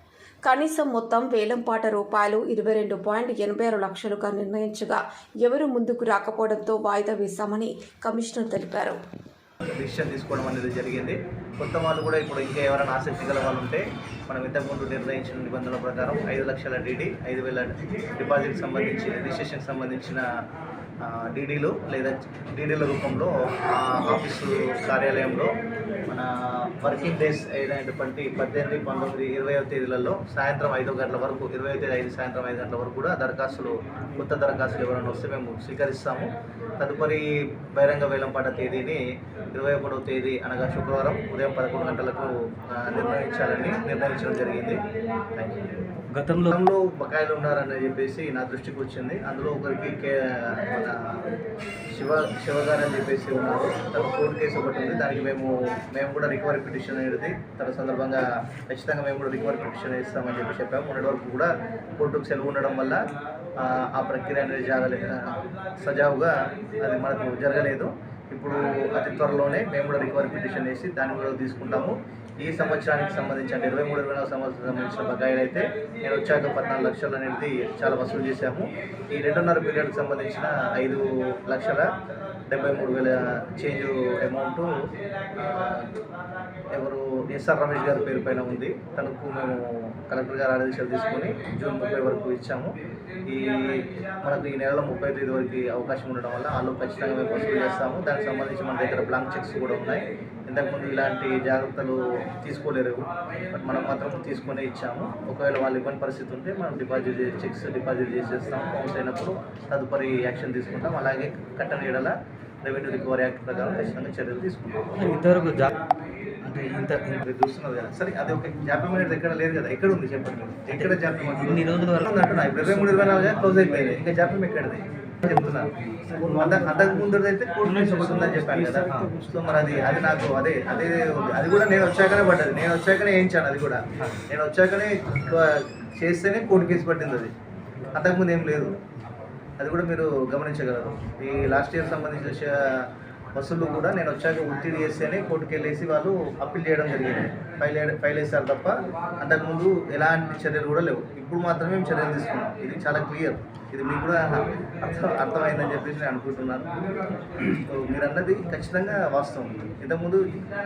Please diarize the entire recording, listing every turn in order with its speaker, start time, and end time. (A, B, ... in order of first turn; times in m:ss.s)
0:00.4-0:09.0 A
0:09.7-0:20.3 B
0:21.0-0:25.5 B
0:26.1-0:39.0 B
0:39.5-0:44.8 B
0:45.3-0:45.7 B
0:46.1-0:46.5 C
0:46.5-0:51.2 B
0:51.9-1:03.0 B
1:03.6-1:21.9 B
1:22.5-1:24.7 B
1:25.3-1:25.9 B
1:26.7-1:32.8 B
1:33.3-1:54.9 B
1:55.0-1:55.7 C
1:56.4-1:57.2 C
1:57.2-2:05.7 B
2:00.7-2:02.1 C
2:06.3-2:17.3 B
2:08.8-2:09.1 C
2:17.9-2:18.8 B
2:19.6-2:36.7 B
2:37.5-2:40.3 B